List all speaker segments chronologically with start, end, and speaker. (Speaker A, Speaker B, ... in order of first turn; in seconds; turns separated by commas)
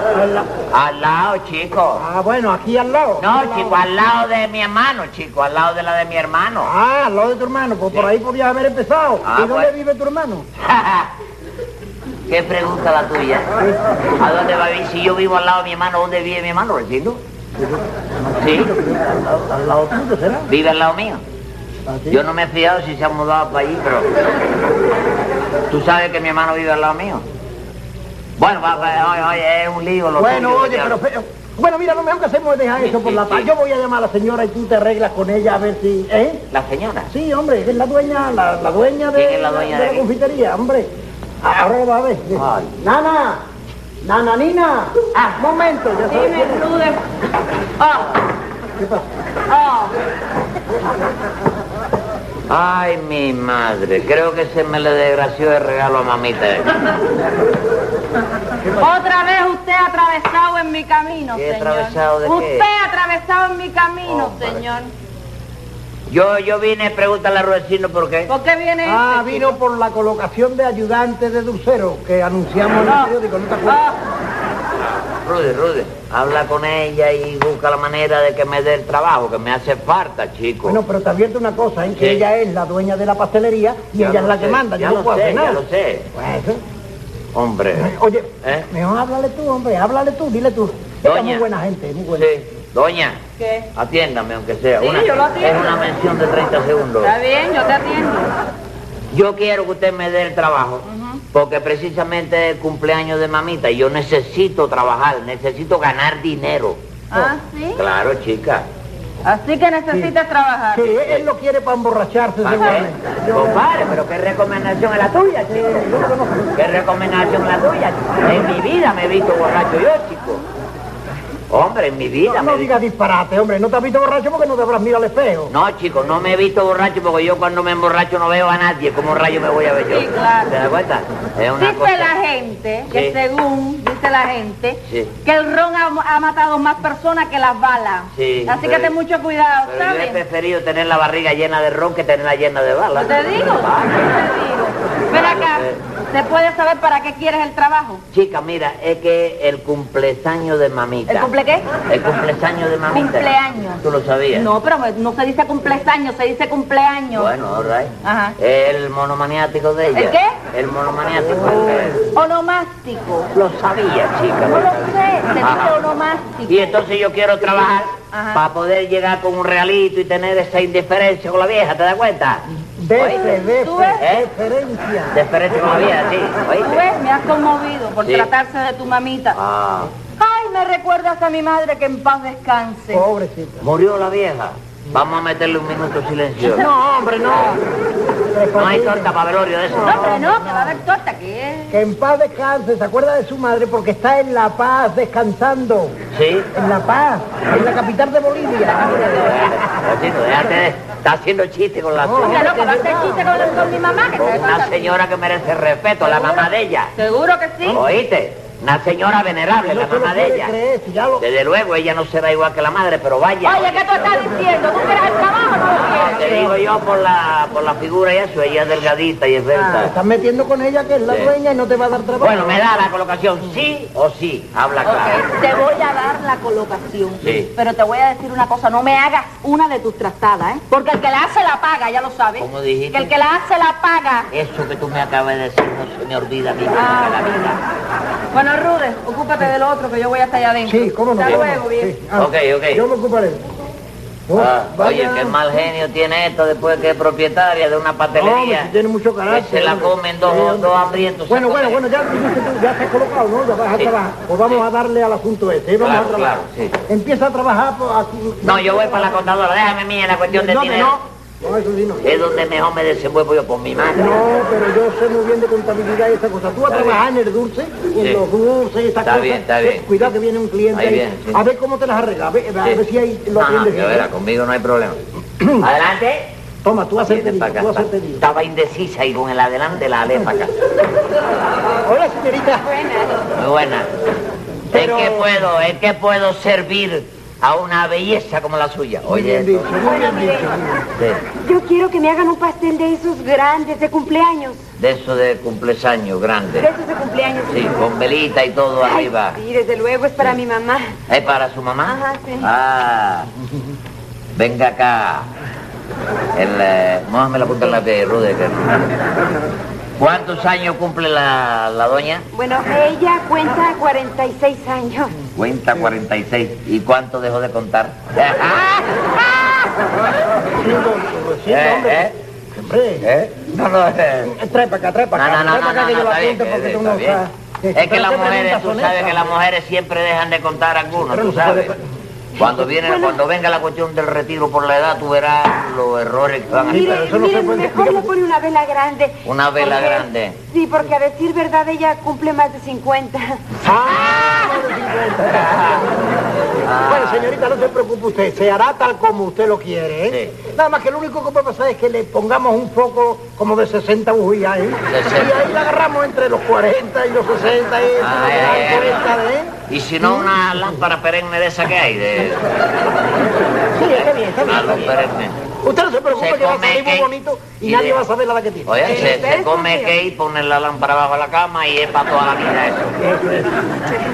Speaker A: 0.1-0.5, Speaker B: 0.7-2.0, Speaker A: 2.0-3.8, Speaker B: 3.2-6.7, Speaker A: 6.6-10.5, Speaker B: 9.2-9.7, Speaker B: 10.6-11.1, Speaker B: 12.3-13.5, Speaker B: 14.2-17.2, Speaker A: 17.6-20.5, Speaker B: 18.4-18.8, Speaker B: 20.5-21.2, Speaker A: 21.9-22.2, Speaker B: 22.1-24.1, Speaker B: 25.7-27.2, Speaker B: 28.4-31.0, Speaker A: 30.2-36.4, Speaker B: 32.8-33.5, Speaker B: 36.5-37.1, Speaker A: 37.1-40.9, Speaker B: 39.1-40.1, Speaker A: 41.4-43.4, Speaker B: 42.4-42.7, Speaker A: 44.0-46.7, Speaker C: 46.1-47.0, Speaker C: 47.8-48.2, Speaker A: 48.8-49.1, Speaker C: 49.5-49.9, Speaker B: 52.5-56.8, Speaker C: 58.8-64.9, Speaker B: 61.3-62.7, Speaker B: 64.1-64.6, Speaker B: 66.1-68.3, Speaker C: 68.3-69.6, Speaker A: 68.8-73.8, Speaker C: 72.8-73.1, Speaker C: 73.7-74.0, Speaker B: 75.2-80.8, Speaker A: 80.7-85.6, Speaker B: 82.0-82.2, Speaker B: 84.0-86.1, Speaker A: 86.1-86.6, Speaker B: 87.3-87.9, Speaker A: 87.8-92.3, Speaker B: 88.4-88.7, Speaker B: 91.0-91.4, Speaker B: 92.2-93.2, Speaker C: 93.4-93.7, Speaker B: 93.8-97.1, Speaker C: 94.8-95.8, Speaker C: 97.0-98.3, Speaker B: 99.1-106.8, Speaker C: 100.8-101.2, Speaker C: 107.1-107.8, Speaker B: 107.8-108.7, Speaker C: 109.2-110.9, Speaker A: 110.7-113.7, Speaker B: 111.0-111.2, Speaker B: 112.4-115.9, Speaker A: 115.5-116.5, Speaker B: 116.5-120.4, Speaker B: 121.5-122.8, Speaker A: 122.2-125.5, Speaker B: 125.5-132.1, Speaker C: 129.9-130.5, Speaker C: 131.6-140.2, Speaker B: 132.9-133.2, Speaker B: 134.9-135.1, Speaker B: 138.1-138.9, Speaker B: 139.7-144.2, Speaker C: 142.9-148.0, Speaker B: 145.1-145.8, Speaker B: 148.1-154.5, Speaker C: 151.1-151.7, Speaker C: 152.9-157.3, Speaker B: 157.1-162.0, Speaker C: 158.0-158.4, Speaker C: 159.9-160.4, Speaker A: 161.3-162.0, Speaker C: 162.1-163.3, Speaker B: 163.3-165.8, Speaker C: 164.4-166.8, Speaker B: 166.5-173.3, Speaker C: 168.1-168.4, Speaker A: 172.8-175.2, Speaker C: 173.0-174.1, Speaker B: 174.0-174.3, Speaker B: 175.1-176.8, Speaker C: 176.5-179.4, Speaker B: 179.3-179.9, Speaker C: 180.2-183.1, Speaker A: 182.9-183.6, Speaker B: 183.6-186.7, Speaker A: 186.4-187.6, Speaker A: 188.3-189.2, Speaker B: 188.6-190.2, Speaker A: 189.7-190.8, Speaker C: 189.8-191.8, Speaker A: 191.7-196.0, Speaker B: 196.1-196.5, Speaker A: 196.5-199.7, Speaker B: 199.0-202.5, Speaker A: 202.0-203.7, Speaker C: 202.2-204.9, Speaker B: 204.2-206.9, Speaker C: 206.0-207.8, Speaker B: 207.7-210.5, Speaker A: 209.6-211.2, Speaker B: 211.2-214.2, Speaker C: 213.4-216.5, Speaker B: 215.7-219.9, Speaker A: 215.9-216.6, Speaker C: 219.6-219.9, Speaker A: 219.8-222.6, Speaker B: 222.2-225.3, Speaker C: 224.8-234.3, Speaker B: 227.2-227.5, Speaker B: 232.4-233.1, Speaker B: 234.3-237.6, Speaker C: 236.8-237.6, Speaker C: 238.3-242.0, Speaker A: 240.7-243.5, Speaker B: 242.1-242.8, Speaker A: 244.3-245.4, Speaker B: 244.3-248.7, Speaker A: 248.2-250.7, Speaker B: 249.3-251.8, Speaker A: 251.3-256.3, Speaker B: 255.8-256.8, Speaker A: 256.9-259.3, Speaker B: 258.4-261.0, Speaker A: 260.3-262.2, Speaker B: 262.0-264.2, Speaker A: 264.0-274.1, Speaker B: 266.7-267.0, Speaker B: 268.0-268.2, Speaker B: 269.0-270.1, Speaker B: 270.7-271.4, Speaker B: 273.4-275.0, Speaker A: 275.4-275.7, Speaker B: 275.6-276.3, Speaker A: 276.6-278.2, Speaker B: 277.1-280.5, Speaker A: 281.9-282.7, Speaker D: 282.6-283.2, Speaker B: 283.4-283.9, Speaker A: 284.7-285.4, Speaker B: 284.7-289.7, Speaker A: 289.1-290.9, Speaker D: 289.8-290.6, Speaker B: 291.0-291.2, Speaker D: 291.4-294.6, Speaker B: 294.8-296.7, Speaker D: 296.6-297.8, Speaker B: 297.5-299.4, Speaker D: 298.8-301.0, Speaker B: 301.1-303.3, Speaker D: 301.9-302.5, Speaker B: 304.4-305.3, Speaker B: 306.4-308.9, Speaker B: 310.0-312.3, Speaker D: 312.3-315.2, Speaker B: 315.4-319.7, Speaker A: 320.5-323.1, Speaker B: 321.5-322.1, Speaker B: 323.0-324.4, Speaker A: 324.2-329.3, Speaker B: 325.1-327.2, Speaker B: 327.8-331.7, Speaker A: 331.0-331.8, Speaker B: 332.4-337.1, Speaker D: 332.4-333.2, Speaker A: 336.6-338.1, Speaker D: 336.7-343.4, Speaker B: 339.2-340.4, Speaker A: 343.6-360.3, Speaker B: 343.8-344.7, Speaker B: 345.3-345.9, Speaker B: 346.6-347.3, Speaker B: 350.1-350.4, Speaker B: 354.9-355.5, Speaker B: 358.0-359.1, Speaker B: 359.7-362.7, Speaker A: 363.7-365.0, Speaker B: 363.9-365.4, Speaker A: 365.6-369.2, Speaker B: 366.1-367.1, Speaker B: 367.6-368.0, Speaker B: 368.7-373.0, Speaker D: 368.8-370.0, Speaker A: 373.0-373.7